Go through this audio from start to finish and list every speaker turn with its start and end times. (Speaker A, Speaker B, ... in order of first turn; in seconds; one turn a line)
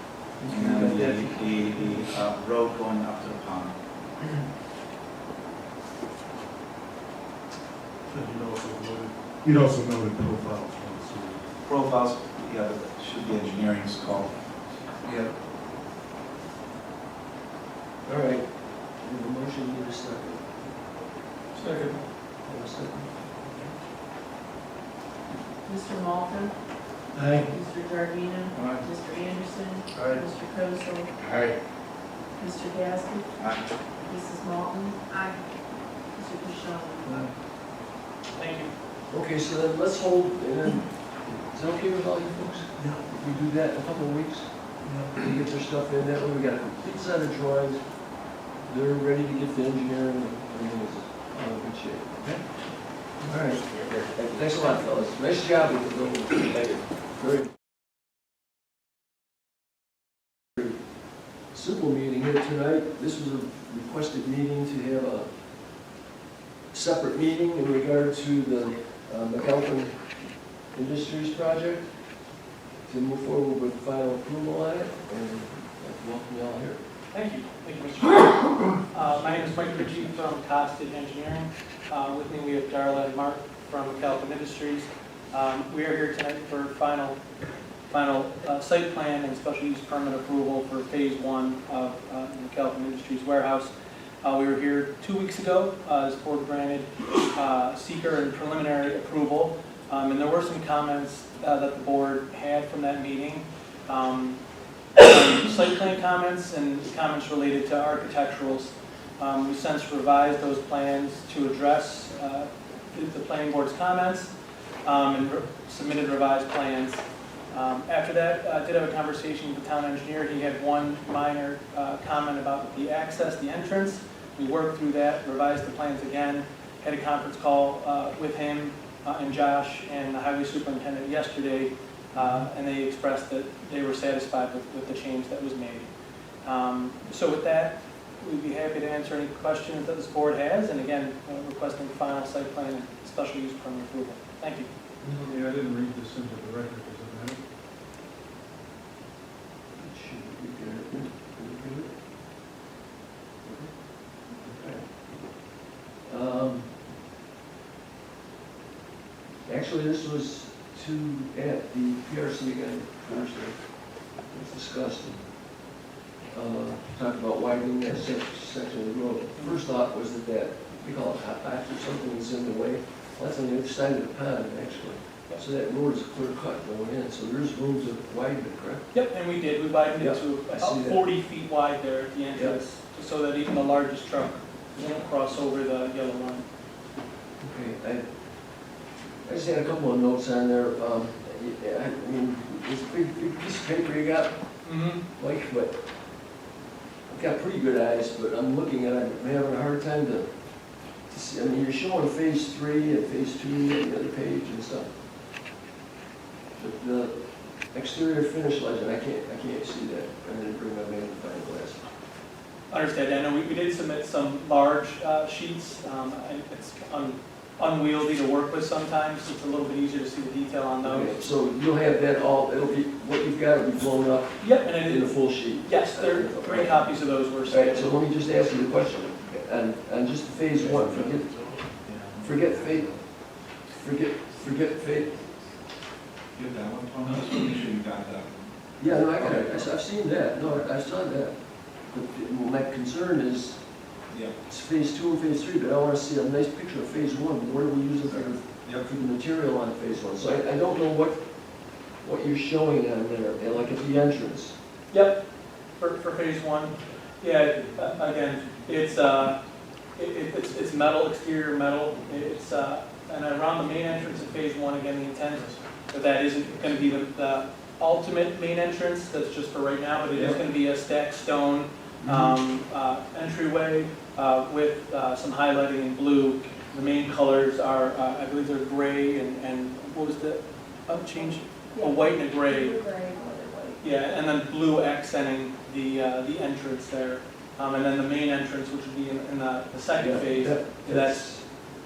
Speaker A: 0.4-1.9
Speaker B: 0.5-3.8
Speaker C: 8.1-11.5
Speaker B: 11.7-14.4
Speaker A: 18.1-20.7
Speaker A: 22.4-23.7
Speaker D: 25.6-26.6
Speaker D: 27.5-31.1
Speaker C: 28.6-28.9
Speaker D: 32.4-33.3
Speaker B: 33.4-33.7
Speaker D: 34.0-35.4
Speaker D: 36.1-37.3
Speaker E: 38.3-38.7
Speaker A: 39.1-44.5
Speaker A: 45.1-47.9
Speaker A: 48.6-52.2
Speaker A: 53.2-57.5
Speaker D: 53.6-54.0
Speaker A: 61.5-65.3
Speaker A: 66.7-70.0
Speaker A: 70.7-71.8
Speaker A: 72.9-76.8
Speaker E: 77.1-87.2
Speaker E: 87.9-104.4
Speaker E: 105.0-114.3
Speaker E: 114.8-135.9
Speaker E: 136.4-144.7
Speaker A: 145.0-145.4
Speaker C: 145.2-147.4
Speaker A: 149.8-151.9
Speaker A: 153.4-153.7
Speaker A: 154.3-155.2
Speaker A: 156.1-156.7
Speaker A: 159.5-163.6
Speaker A: 164.3-165.2
Speaker A: 166.3-178.8
Speaker E: 178.9-186.5
Speaker A: 180.0-181.0
Speaker A: 187.4-188.1
Speaker A: 189.2-194.3
Speaker E: 194.6-195.0
Speaker A: 195.2-195.8
Speaker A: 197.1-200.3
Speaker A: 201.1-204.9
Speaker A: 206.6-207.2
Speaker A: 207.7-211.8
Speaker E: 212.7-221.1
Speaker A: 220.8-226.9
Speaker E: 224.4-227.9
Speaker A: 227.5-231.3
Speaker C: 230.7-231.7
Speaker B: 231.8-232.9
Speaker A: 232.2-233.0
Speaker A: 233.8-235.1
Speaker B: 236.3-239.7
Speaker A: 238.8-243.6
Speaker B: 244.1-244.3
Speaker A: 244.5-251.2
Speaker B: 248.1-248.9
Speaker A: 252.0-254.5
Speaker E: 254.9-255.2
Speaker E: 255.8-259.4
Speaker E: 260.0-282.8
Speaker A: 272.0-272.4
Speaker D: 281.7-283.8
Speaker E: 283.8-291.2
Speaker A: 289.9-291.4